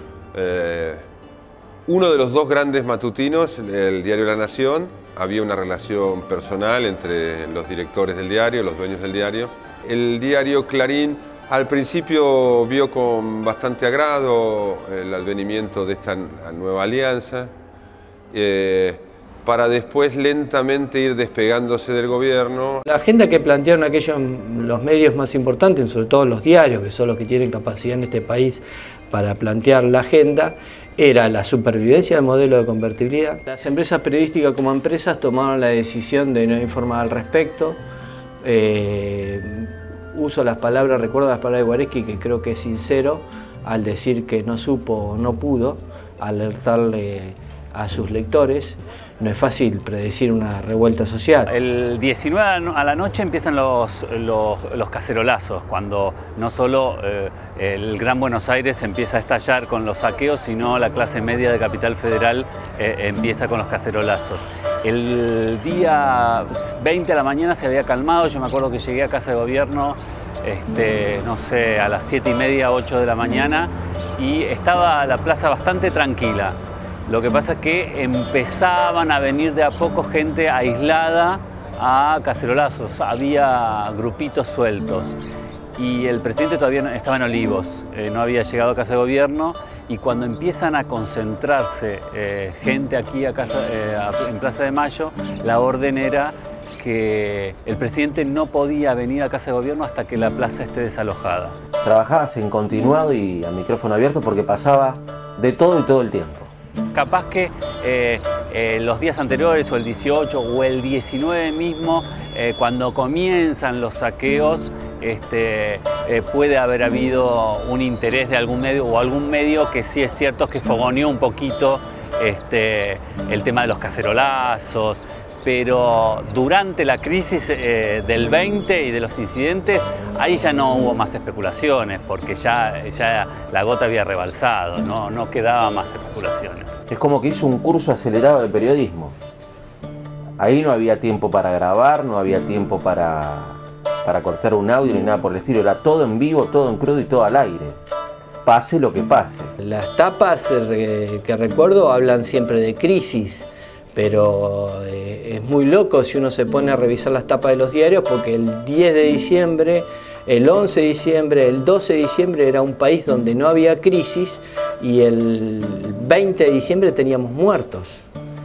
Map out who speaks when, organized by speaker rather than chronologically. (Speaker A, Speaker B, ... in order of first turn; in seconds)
Speaker A: 0.3-1.0, 1.9-17.5, 18.3-22.8
Speaker B: 22.9-37.8, 38.4-51.5, 149.6-168.1
Speaker C: 51.5-85.2, 85.8-101.6, 106.9-136.7
Speaker D: 101.8-106.5, 136.9-139.2, 140.4-147.8, 148.4-149.5